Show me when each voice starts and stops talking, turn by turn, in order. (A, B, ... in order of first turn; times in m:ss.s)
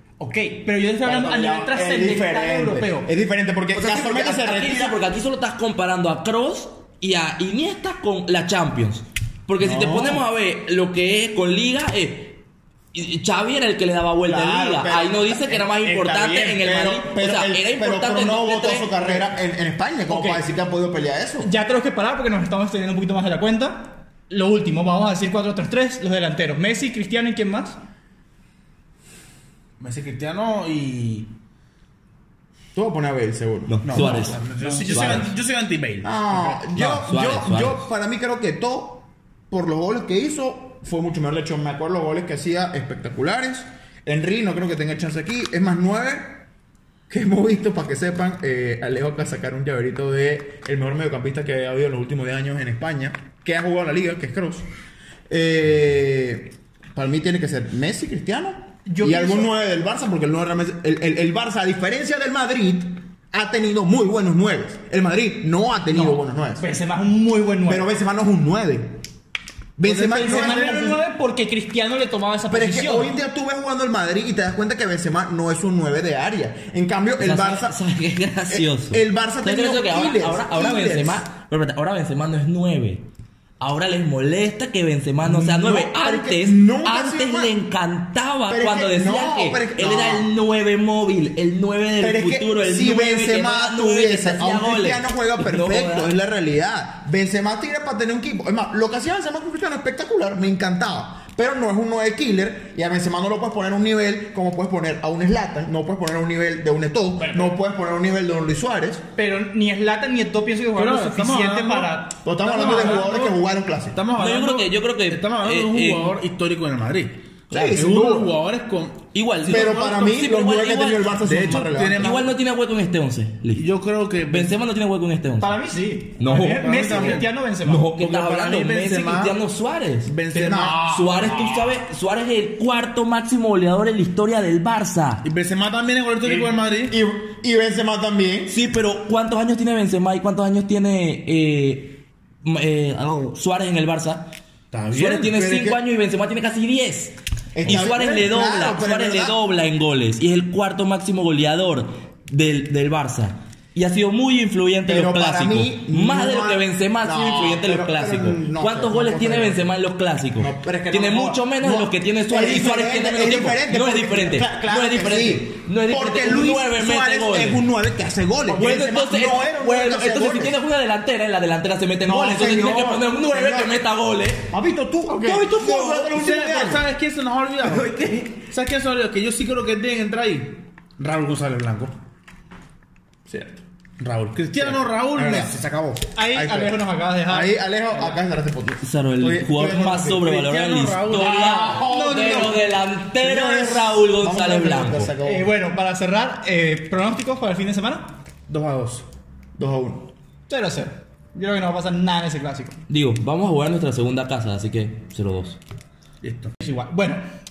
0:00.2-0:03.1 A
0:01.0-0:05.0 B
0:03.7-0:12.4 C
0:09.6-0:10.2 B
0:12.9-0:19.0 C
0:14.2-0:21.5 B
0:20.1-0:20.4 A
0:21.4-0:27.8 A
0:29.8-0:31.3 D
0:32.7-0:35.3 B
0:33.7-0:35.3 C
0:33.8-0:36.7 D
0:36.0-0:46.4 B
0:36.7-0:37.8 C
0:47.1-0:54.7 B
0:55.3-1:06.7 B
0:58.9-0:59.5 A
1:05.9-1:07.9 A
1:07.7-1:09.0 B
1:09.8-1:11.0 B
1:09.8-1:13.1 A
1:12.5-1:17.8 B
1:17.2-1:23.1 C
1:18.5-1:21.2 B
1:23.6-1:36.1 C
1:25.2-1:27.6 B
1:28.5-1:30.3 B
1:32.0-1:49.0 B
1:47.2-1:47.6 A
1:49.2-1:53.3 A
1:50.8-1:52.0 D
1:52.2-1:54.0 B
1:52.5-1:53.4 D
1:53.9-1:59.9 D
1:54.2-1:56.2 C
1:57.5-1:58.4 B
1:59.1-2:03.7 C
1:59.5-2:02.3 B
2:01.2-2:02.3 D
2:03.5-2:04.6 D
2:04.2-2:05.6 C
2:05.4-2:07.9 A
2:06.2-2:10.1 C
2:06.4-2:07.3 D
2:07.9-2:09.4 D
2:10.0-2:10.9 D
2:10.3-2:11.8 B
2:10.7-2:15.2 C
2:15.2-2:17.0 D
2:16.2-2:18.6 B
2:18.5-2:24.3 C
2:24.7-2:25.3 D
2:24.9-2:47.6 C
2:25.2-2:25.8 B
2:27.6-2:29.4 B
2:34.8-2:39.7 B
2:40.4-2:50.6 B
2:48.5-2:48.9 A
2:48.5-2:54.5 C
2:52.0-2:53.8 B
2:54.5-2:56.8 B
2:55.1-2:55.4 A
2:55.3-3:02.0 D
3:03.3-3:03.6 B
3:04.0-3:06.1 D
3:04.5-3:05.5 B
3:06.2-3:08.2 A
3:06.3-3:10.4 B
3:08.8-3:15.1 C
3:10.1-3:11.7 D
3:11.1-3:12.6 B
3:11.8-3:12.6 A
3:13.2-3:15.5 B
3:15.2-3:18.1 A
3:18.5-3:19.1 D
3:19.6-3:20.1 B
3:20.5-3:22.8 A
3:22.9-3:25.6 C
3:26.2-3:26.5 D
3:26.6-3:27.2 A